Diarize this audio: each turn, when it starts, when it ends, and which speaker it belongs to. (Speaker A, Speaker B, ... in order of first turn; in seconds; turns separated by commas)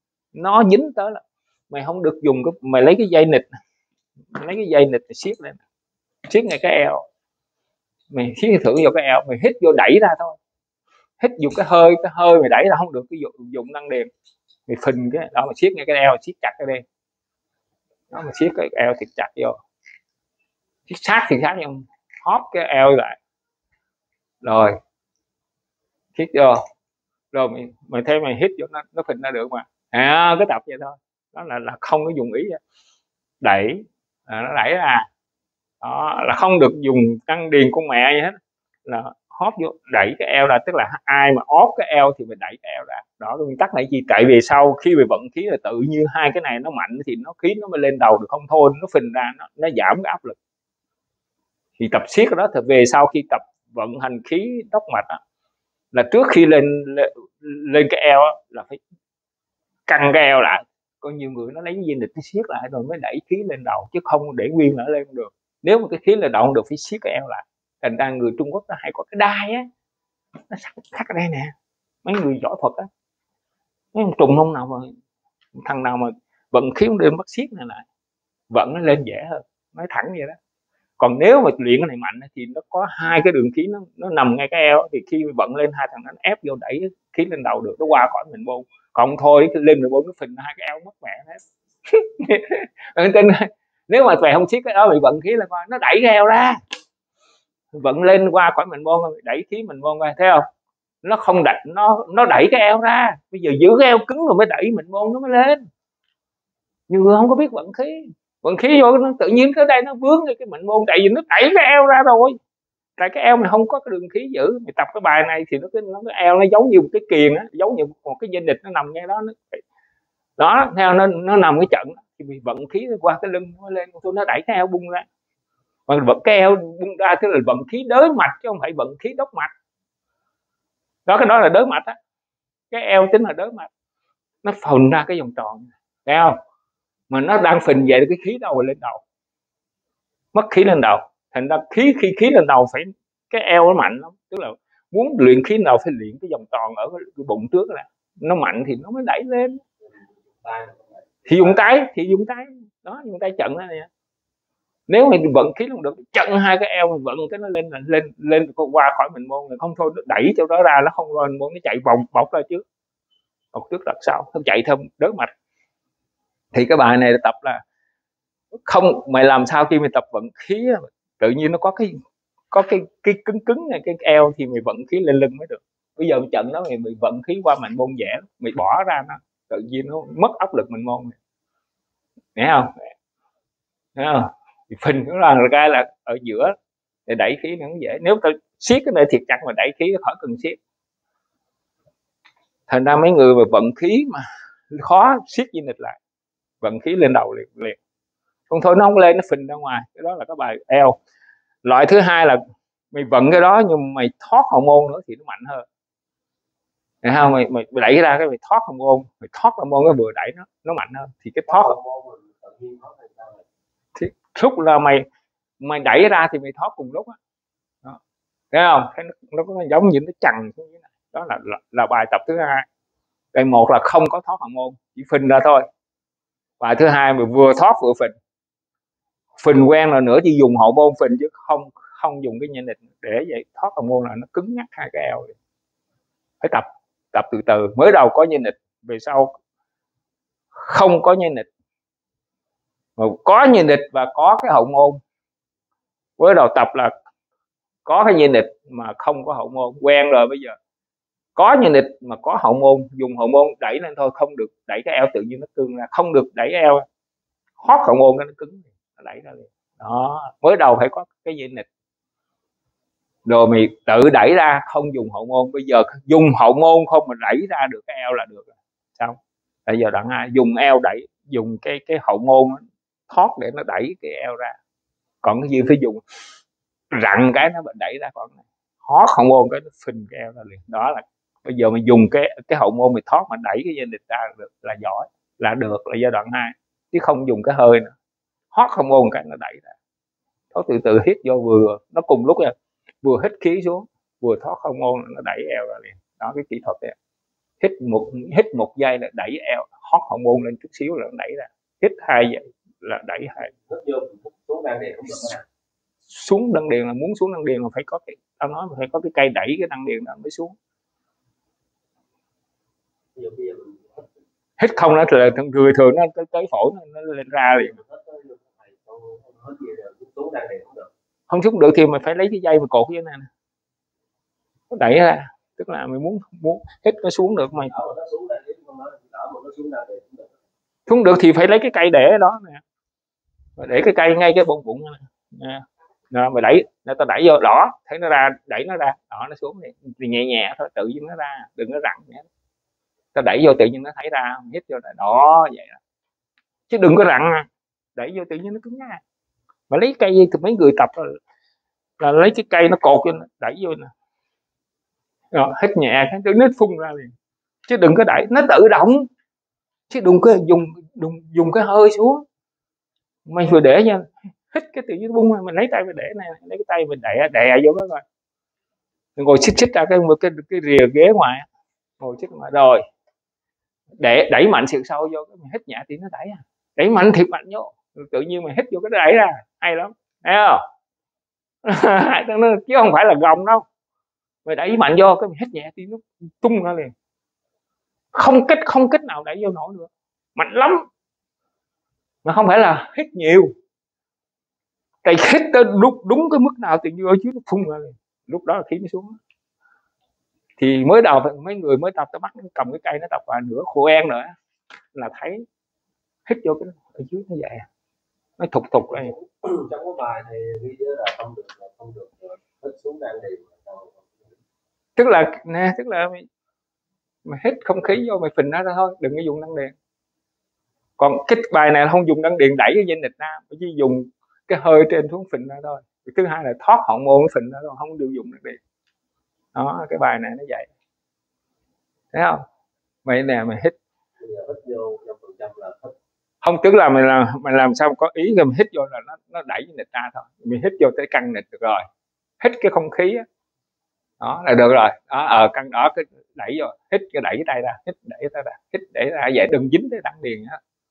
Speaker A: 0.3-3.5, Speaker A: 4.3-5.6, Speaker A: 6.3-7.0, Speaker A: 8.1-10.4, Speaker A: 11.2-14.1, Speaker A: 14.7-16.8, Speaker A: 18.1-19.6, Speaker A: 20.9-23.2, Speaker A: 24.4-24.7, Speaker A: 26.1-26.6, Speaker A: 27.3-32.6, Speaker A: 33.4-35.0, Speaker A: 35.8-50.4, Speaker A: 51.8-55.2, Speaker A: 55.9-58.8, Speaker A: 59.9-69.6, Speaker A: 70.5-71.5, Speaker A: 72.0-72.9, Speaker A: 73.9-74.9, Speaker A: 75.5-77.9, Speaker A: 78.5-80.3, Speaker A: 81.0-91.4, Speaker A: 91.9-96.6, Speaker A: 97.7-100.4, Speaker A: 101.0-105.6, Speaker A: 106.9-112.3, Speaker A: 113.0-119.6, Speaker A: 120.4-125.0, Speaker A: 125.9-129.5, Speaker A: 131.1-131.9, Speaker A: 132.7-133.7, Speaker A: 134.4-136.4, Speaker A: 137.1-139.0, Speaker A: 140.3-149.6, Speaker B: 149.8-151.6, Speaker A: 151.3-153.9, Speaker A: 154.9-162.6, Speaker A: 163.5-165.3, Speaker A: 166.5-167.6, Speaker A: 168.7-171.9, Speaker A: 172.5-181.1, Speaker A: 182.3-182.9, Speaker A: 183.9-186.5, Speaker A: 187.1-190.6, Speaker A: 192.7-196.0, Speaker A: 196.6-197.8, Speaker A: 198.5-201.0, Speaker A: 201.6-202.4, Speaker A: 202.9-205.6, Speaker A: 207.0-211.7, Speaker B: 211.5-213.4, Speaker A: 213.9-215.0, Speaker A: 215.6-217.2, Speaker A: 218.5-222.7, Speaker A: 223.3-225.6, Speaker A: 226.6-228.1, Speaker A: 229.4-235.3, Speaker A: 236.4-239.3, Speaker A: 240.6-241.5, Speaker A: 243.0-245.0, Speaker A: 246.2-246.9, Speaker A: 247.8-250.5, Speaker A: 251.3-256.8, Speaker A: 257.6-261.6, Speaker A: 263.2-274.6, Speaker A: 275.2-276.0, Speaker A: 276.9-287.9, Speaker A: 288.5-289.7, Speaker A: 290.5-296.9, Speaker A: 297.6-303.5, Speaker B: 303.7-305.4, Speaker A: 306.1-310.5, Speaker B: 313.1-314.1, Speaker A: 314.6-317.8, Speaker B: 317.7-320.9, Speaker A: 321.3-323.3, Speaker A: 324.7-327.7, Speaker B: 327.7-330.3, Speaker A: 330.9-332.6, Speaker A: 333.6-342.2, Speaker A: 343.1-345.8, Speaker A: 346.7-349.0, Speaker A: 349.7-351.1, Speaker A: 352.0-353.9, Speaker A: 355.3-357.1, Speaker A: 357.6-359.1, Speaker A: 359.9-362.2, Speaker A: 363.3-368.0, Speaker A: 369.2-371.4, Speaker A: 372.0-372.8, Speaker A: 374.0-380.6, Speaker A: 381.6-383.6, Speaker A: 384.4-386.9, Speaker A: 388.1-390.8, Speaker A: 392.2-393.5, Speaker A: 395.0-399.1, Speaker A: 400.6-404.3, Speaker A: 404.9-405.4, Speaker A: 406.2-407.6, Speaker A: 408.4-409.1, Speaker B: 408.9-414.4, Speaker A: 415.0-416.2, Speaker A: 417.2-419.7, Speaker A: 421.0-428.6, Speaker A: 429.5-430.7, Speaker A: 432.1-432.4, Speaker A: 433.0-433.7, Speaker B: 434.2-435.9, Speaker A: 436.4-441.8, Speaker A: 442.4-443.2, Speaker A: 444.2-450.6